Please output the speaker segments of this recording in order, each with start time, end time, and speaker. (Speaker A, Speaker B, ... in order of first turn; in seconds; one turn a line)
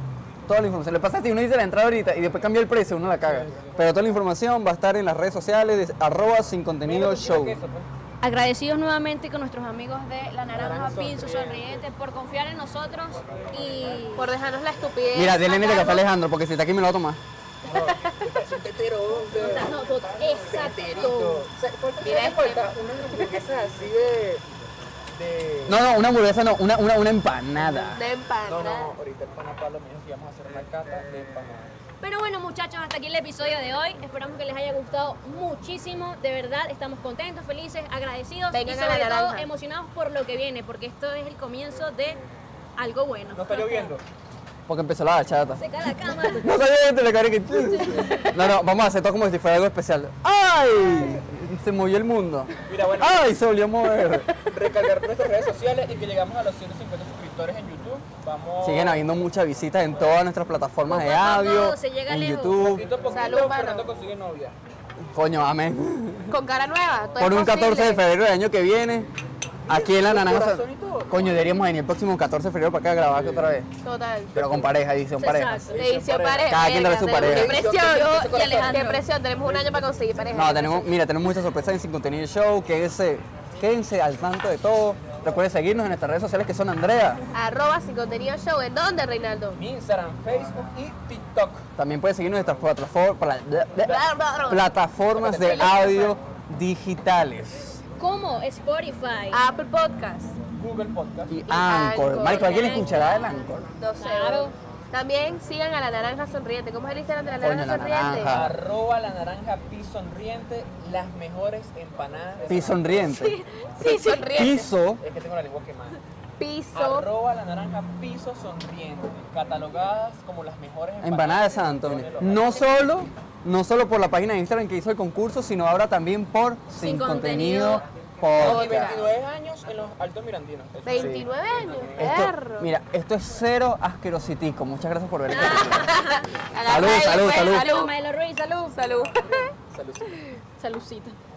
Speaker A: 0.5-7.6
Speaker B: 3.3-3.7
Speaker B: 6.8-7.9
Speaker C: 8.2-14.3
Speaker B: 10.5-11.8
Speaker D: 14.2-16.0
Speaker A: 15.1-17.2
Speaker B: 17.6-19.8
Speaker D: 17.7-18.3
Speaker C: 19.4-21.4
Speaker B: 20.4-24.4
Speaker D: 22.0-22.7
Speaker B: 25.1-25.8
Speaker A: 25.6-28.0
Speaker D: 27.7-28.9
Speaker B: 28.5-31.8
Speaker C: 32.0-42.2
Speaker D: 38.5-39.5
Speaker C: 42.8-43.9
Speaker B: 43.3-44.0
Speaker A: 44.7-45.6
Speaker C: 45.5-46.5
Speaker A: 46.4-54.3
Speaker C: 47.7-48.3
Speaker B: 52.7-53.3
Speaker B: 54.4-59.0
Speaker A: 58.6-62.9
Speaker C: 60.9-62.6
Speaker B: 62.6-64.5
Speaker D: 63.1-63.9
Speaker A: 65.1-66.3
Speaker D: 66.3-68.0
Speaker A: 67.2-69.1
Speaker A: 69.7-73.7
Speaker B: 69.7-71.4
Speaker B: 73.1-73.5
Speaker D: 73.8-74.7
Speaker A: 74.3-75.7
Speaker B: 74.3-74.7
Speaker C: 75.2-75.7
Speaker B: 75.7-79.8
Speaker D: 75.8-80.9
Speaker A: 76.5-77.6
Speaker C: 78.1-79.0
Speaker A: 80.3-87.2
Speaker D: 87.3-89.6
Speaker B: 89.5-91.7
Speaker A: 91.8-97.8
Speaker D: 93.8-94.7
Speaker B: 95.1-96.1
Speaker D: 95.4-96.1
Speaker C: 98.0-99.4
Speaker D: 99.3-100.3
Speaker B: 100.5-101.4
Speaker A: 101.3-103.7
Speaker D: 101.5-103.0
Speaker C: 102.2-103.5
Speaker D: 103.8-108.4
Speaker C: 104.0-104.5
Speaker A: 107.4-108.5
Speaker B: 108.3-113.1
Speaker A: 112.5-113.4
Speaker C: 113.1-114.3
Speaker D: 113.8-114.7
Speaker A: 114.3-115.0
Speaker B: 115.0-116.0
Speaker D: 116.4-117.1
Speaker B: 116.7-122.8
Speaker A: 121.0-129.0
Speaker C: 126.8-127.8
Speaker B: 128.3-132.2
Speaker D: 128.4-129.1
Speaker D: 130.8-132.7
Speaker A: 130.9-131.3
Speaker A: 132.0-136.0
Speaker C: 135.3-136.3
Speaker D: 135.7-137.9
Speaker A: 136.6-137.7
Speaker C: 137.2-138.7
Speaker D: 138.7-139.5
Speaker B: 139.7-140.2
Speaker C: 140.6-141.2